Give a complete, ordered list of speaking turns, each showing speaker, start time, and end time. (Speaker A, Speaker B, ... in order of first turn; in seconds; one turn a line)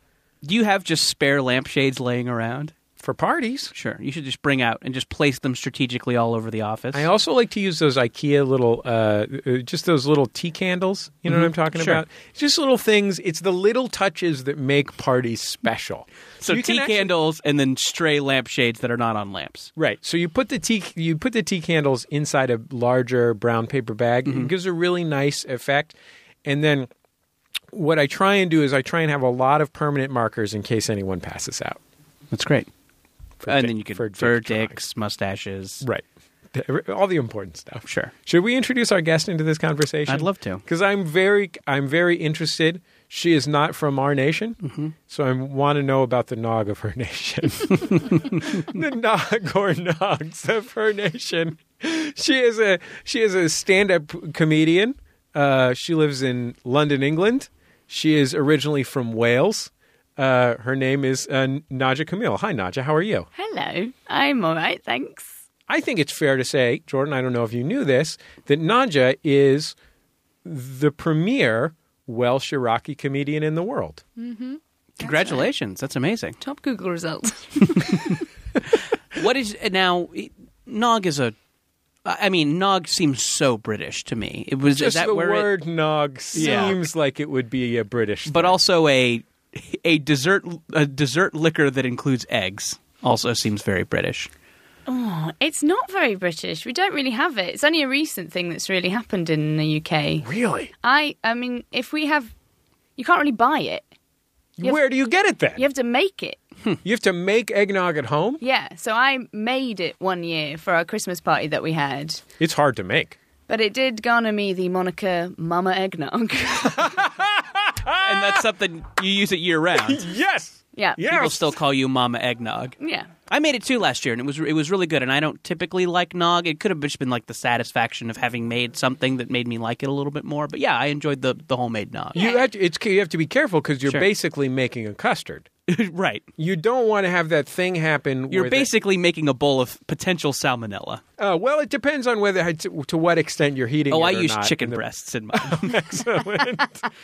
Speaker A: 0.4-2.7
Speaker B: 3.0-3.7
Speaker A: 3.7-7.1
Speaker B: 6.9-17.1
Speaker A: 11.3-12.0
Speaker A: 16.4-19.7
Speaker B: 19.8-26.9
Speaker A: 24.3-24.5
Speaker B: 27.7-31.8
Speaker A: 32.3-32.7
Speaker B: 33.4-34.8
Speaker A: 33.5-35.8
Speaker B: 35.8-63.3
Speaker A: 37.9-38.1
Speaker A: 40.1-40.6
Speaker A: 44.6-44.9
Speaker C: 63.4-65.3
Speaker B: 65.7-69.8
Speaker B: 70.4-74.0
Speaker C: 74.2-75.5
Speaker A: 75.0-76.4
Speaker C: 76.4-77.8
Speaker A: 77.7-78.2
Speaker A: 79.1-81.3
Speaker A: 82.0-85.5
Speaker B: 84.7-88.6
Speaker A: 86.3-86.8
Speaker C: 86.4-86.7
Speaker A: 88.3-94.3
Speaker C: 94.9-100.3
Speaker B: 100.2-100.7
Speaker C: 100.8-102.3
Speaker C: 103.0-103.9
Speaker B: 104.6-105.6
Speaker C: 105.6-106.4
Speaker B: 106.8-108.4
Speaker C: 108.4-112.2
Speaker B: 112.4-113.2
Speaker C: 113.5-117.0
Speaker B: 116.6-118.4
Speaker A: 118.0-120.0
Speaker B: 119.7-121.5
Speaker C: 120.8-121.0
Speaker A: 121.0-122.8
Speaker C: 122.8-123.1
Speaker A: 123.3-132.2
Speaker C: 132.2-132.4
Speaker B: 132.2-135.5
Speaker A: 135.7-136.3
Speaker B: 136.4-138.7
Speaker A: 138.3-141.0
Speaker B: 141.2-146.8
Speaker A: 143.9-145.8